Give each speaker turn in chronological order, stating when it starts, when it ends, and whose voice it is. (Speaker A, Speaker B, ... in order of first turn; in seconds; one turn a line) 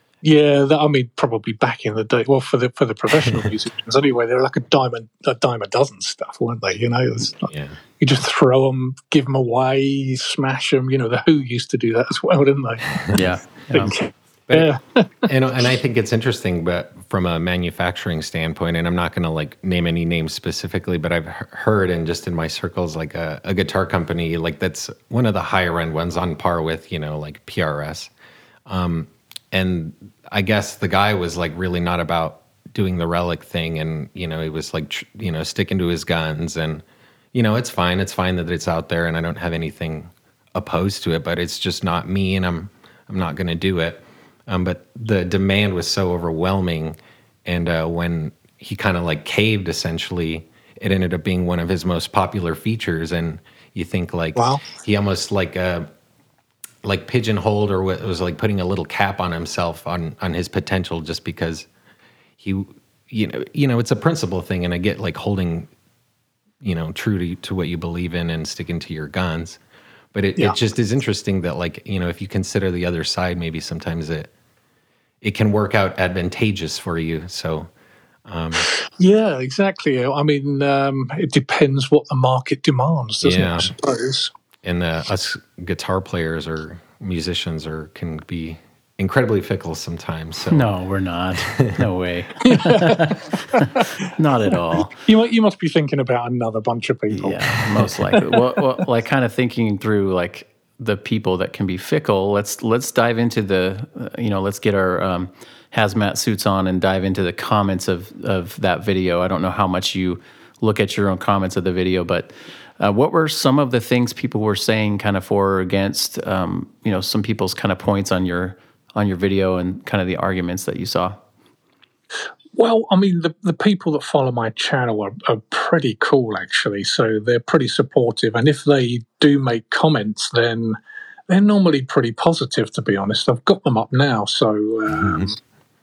Speaker A: 0.2-15.3
Speaker B: 7.5-7.8
Speaker C: 13.1-14.0
Speaker B: 15.2-28.1
Speaker B: 28.7-55.9
Speaker A: 54.4-54.6
Speaker B: 56.8-61.7
Speaker B: 62.4-65.7
Speaker B: 66.6-69.6
Speaker B: 70.1-74.3
Speaker B: 75.2-77.7
Speaker B: 78.3-78.7
Speaker A: 78.9-84.3
Speaker B: 83.2-83.7
Speaker B: 84.6-90.7
Speaker C: 90.5-95.0
Speaker B: 91.5-91.8
Speaker A: 92.5-93.8
Speaker A: 95.0-98.6
Speaker C: 97.1-121.2
Speaker A: 122.6-130.8
Speaker A: 131.3-135.3
Speaker B: 134.9-135.3